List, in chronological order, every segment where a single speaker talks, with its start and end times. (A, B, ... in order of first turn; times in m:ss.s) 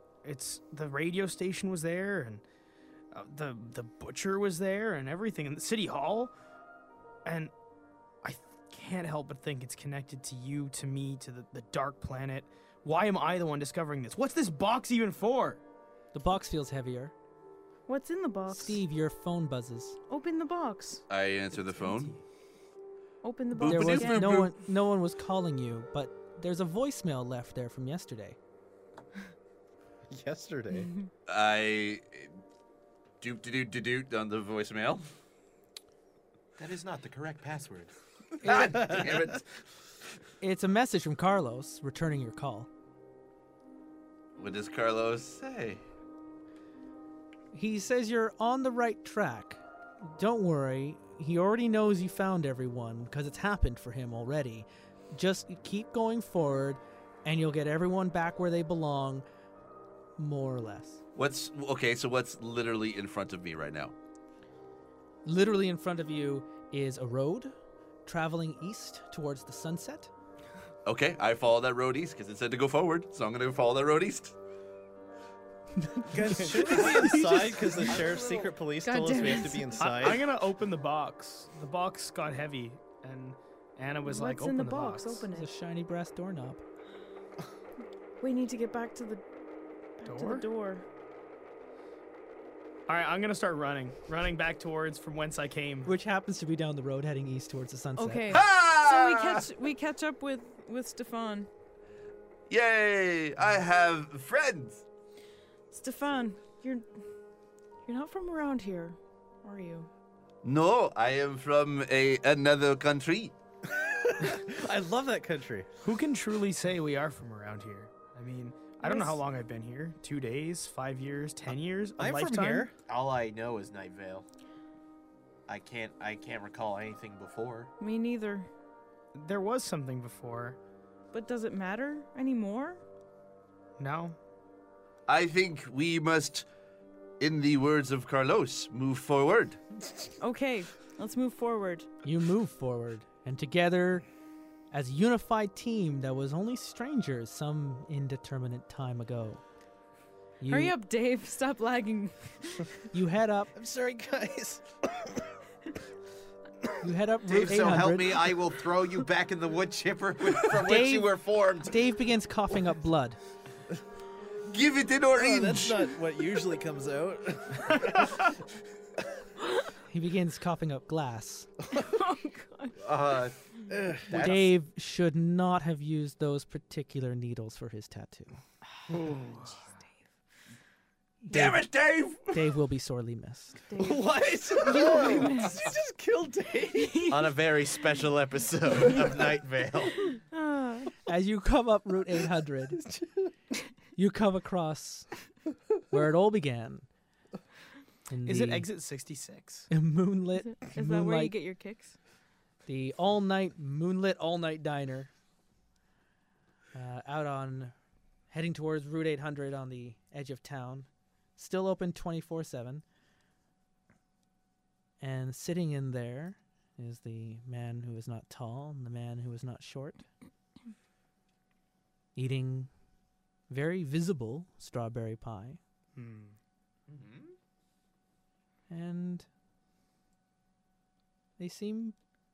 0:00.2-0:02.4 A
0:03.1-0:06.3 A
0:07.2-0:07.5 A
0:08.2-0:15.6 A
0:16.1-0:17.1 B
0:17.9-0:18.8 C
0:18.5-0:20.0 B
0:20.1-0:21.0 C
0:21.1-0:22.2 D
0:23.2-0:24.4 C
0:23.6-0:24.5 D
0:23.6-0:28.4 B
0:30.1-0:30.9 E
0:31.3-0:32.3 D
0:33.2-0:35.0 D
0:36.6-0:37.9 F
0:38.4-0:39.4 D
0:38.4-0:38.8 B
0:40.4-0:42.7 B
0:44.4-0:45.8 D
0:47.5-0:59.2 B
1:00.2-1:01.0 B
1:01.2-1:03.9 D
1:05.2-1:07.5 B
1:08.0-1:10.1 B
1:10.8-1:14.3 D
1:15.9-1:17.5 B
1:16.1-1:20.3 E
1:18.0-1:18.4 F
1:18.8-1:19.9 C
1:19.8-1:25.2 A
1:24.0-1:25.5 C
1:25.3-1:26.6 B
1:28.2-1:29.2 C
1:30.0-1:30.8 C
1:30.0-1:30.4 A
1:32.9-1:35.9 A
1:35.8-1:38.4 B
1:38.0-1:41.5 C
1:38.3-1:39.5 D
1:42.5-1:44.8 D
1:45.7-1:46.9 C
1:47.8-1:49.9 C
1:50.4-1:53.3 D
1:54.0-1:55.7 E
1:55.8-2:02.7 A
1:58.8-1:59.2 C
2:02.0-2:02.7 E
2:02.8-2:04.2 F
2:05.5-2:07.7 F
2:07.8-2:08.5 C
2:09.1-2:10.6 A
2:11.1-2:12.8 C
2:13.8-2:14.2 A
2:15.1-2:16.4 D
2:17.2-2:19.6 D
2:20.2-2:21.9 C
2:22.0-2:24.0 B
2:24.7-2:29.4 B
2:30.4-2:30.8 B
2:30.5-2:32.7 C
2:32.9-2:33.5 B
2:33.5-2:35.2 E
2:36.8-2:38.4 B
2:37.2-2:41.8 F
2:40.5-2:43.2 B
2:44.5-2:45.9 D
2:45.1-2:48.3 E
2:49.9-2:51.5 B
2:51.8-2:52.8 C
2:52.8-2:54.5 F
2:53.7-2:54.3 E
2:54.1-2:58.4 B
2:59.4-2:59.8 C
3:01.2-3:01.7 B
3:01.3-3:02.4 D
3:02.3-3:03.6 B
3:03.7-3:05.6 C
3:03.8-3:06.9 E
3:04.8-3:05.3 F
3:06.7-3:07.4 C
3:07.1-3:10.0 F
3:10.1-3:10.9 C
3:11.0-3:12.8 B
3:14.0-3:15.1 B
3:15.9-3:16.9 B
3:18.1-3:18.7 B
3:18.2-3:19.7 A
3:19.7-3:21.3 B
3:20.6-3:22.0 C
3:22.7-3:25.1 B
3:26.7-3:27.7 B
3:28.3-3:32.8 B
3:35.0-3:40.0 B
3:42.1-3:42.7 B
3:43.5-3:45.6 B
3:45.9-3:46.4 A
3:46.9-3:47.3 F
3:48.7-3:49.2 B
3:51.4-3:52.0 B